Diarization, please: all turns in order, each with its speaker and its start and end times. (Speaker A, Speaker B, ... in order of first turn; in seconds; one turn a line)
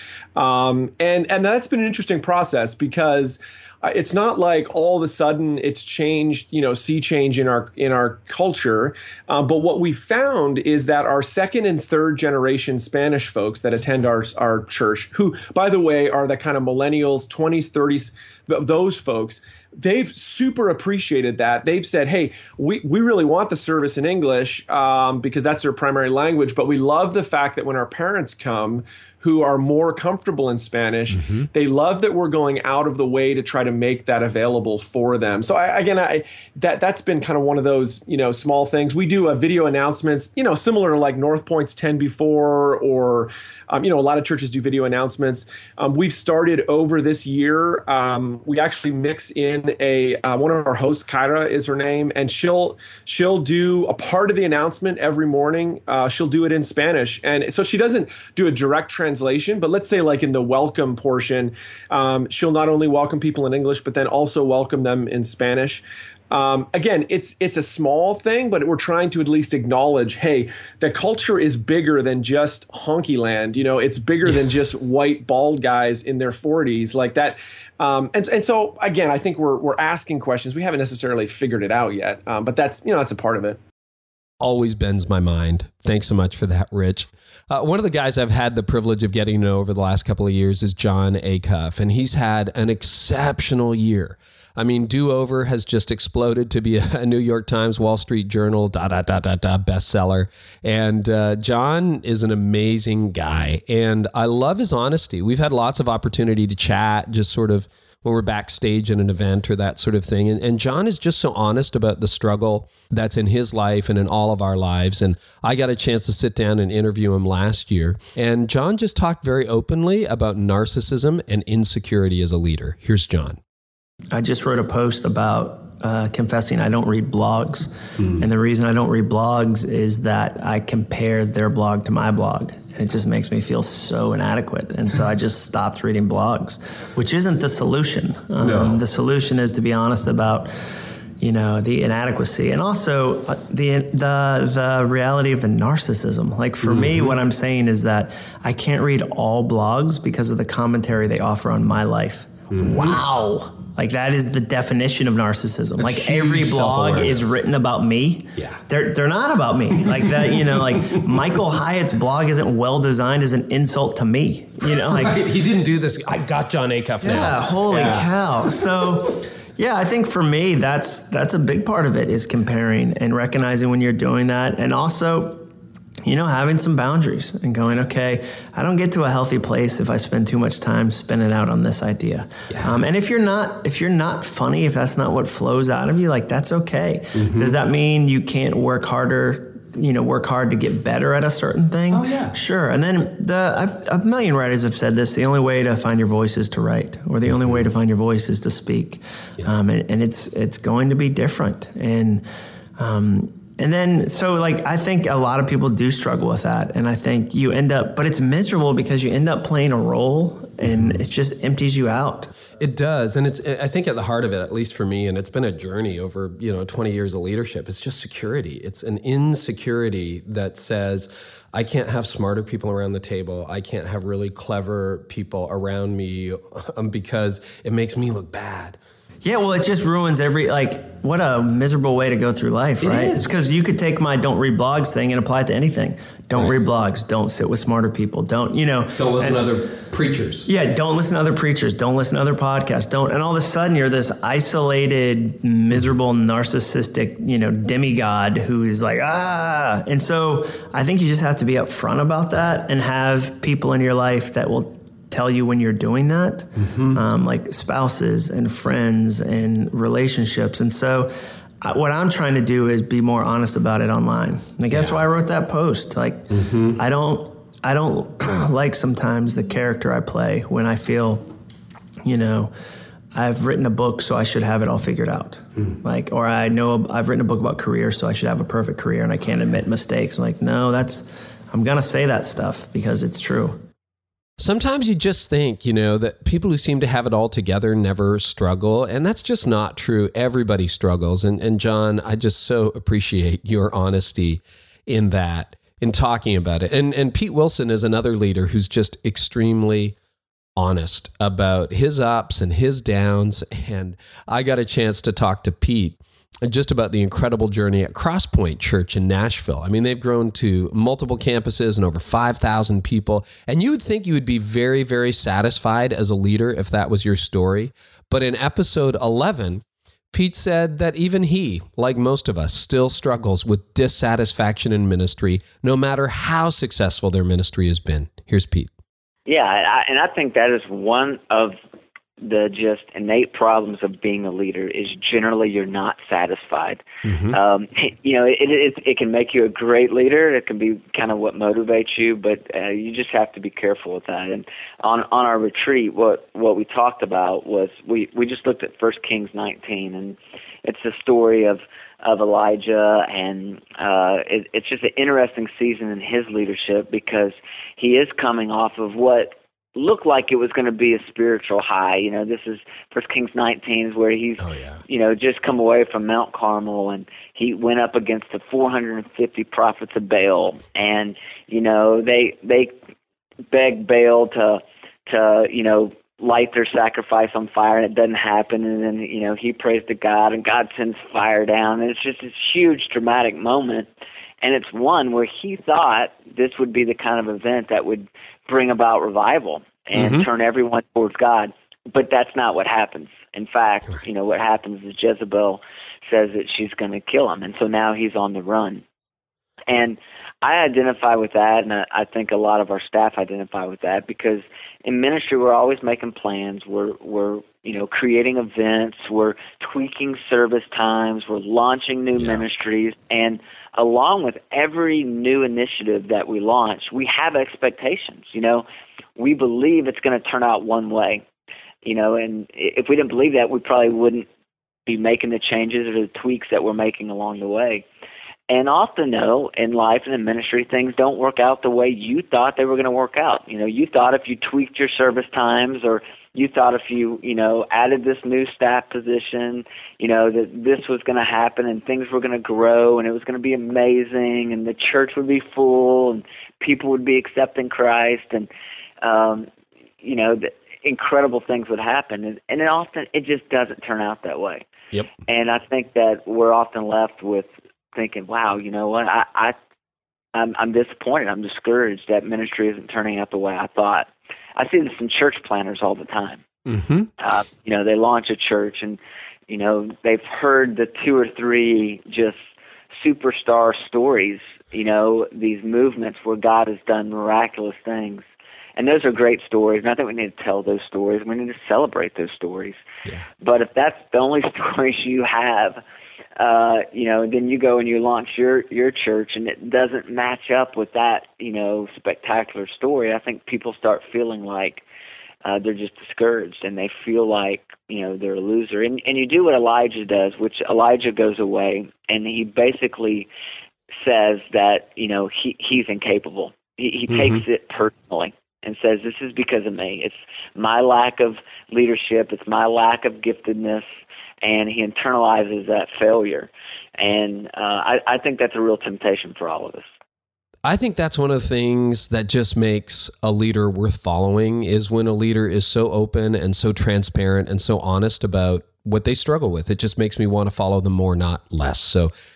Speaker A: 0.3-83.6
Speaker B: 31.1-31.5
Speaker B: 84.4-123.4
Speaker C: 124.1-140.5
Speaker B: 138.4-138.8
Speaker C: 141.2-165.2
Speaker B: 146.6-147.1
Speaker B: 152.5-153.3
Speaker B: 155.8-157.3
Speaker B: 159.9-160.6
Speaker B: 164.6-168.6
Speaker C: 167.0-175.5
Speaker C: 176.0-202.2
Speaker B: 182.5-182.8
Speaker B: 187.2-187.6
Speaker B: 191.9-192.3
Speaker C: 202.8-212.3
Speaker B: 210.6-211.0
Speaker B: 212.6-228.8
Speaker C: 229.2-239.5
Speaker B: 232.8-233.4
Speaker B: 239.0-240.5
Speaker C: 240.4-271.3
Speaker B: 256.6-257.0
Speaker B: 264.7-265.0
Speaker B: 266.3-266.8
Speaker C: 272.0-272.5
Speaker C: 273.1-283.6
Speaker B: 284.4-299.9
Speaker B: 300.6-328.7
Speaker D: 329.2-331.6
Speaker D: 332.2-372.8
Speaker B: 337.0-337.4
Speaker B: 364.4-364.8
Speaker D: 373.5-383.9
Speaker D: 384.4-398.8
Speaker B: 389.9-390.2
Speaker D: 399.7-421.2
Speaker D: 421.8-424.2
Speaker D: 424.9-427.9
Speaker D: 428.5-448.5
Speaker D: 449.0-449.5
Speaker D: 450.0-454.6
Speaker D: 455.2-459.5
Speaker D: 460.3-466.4
Speaker B: 466.7-467.1
Speaker D: 467.2-472.4
Speaker D: 473.0-478.2
Speaker D: 478.8-482.8
Speaker D: 483.4-485.8
Speaker D: 486.4-494.8
Speaker D: 495.4-503.3
Speaker D: 504.0-513.9
Speaker B: 507.1-507.4
Speaker D: 514.4-519.9
Speaker B: 520.6-532.1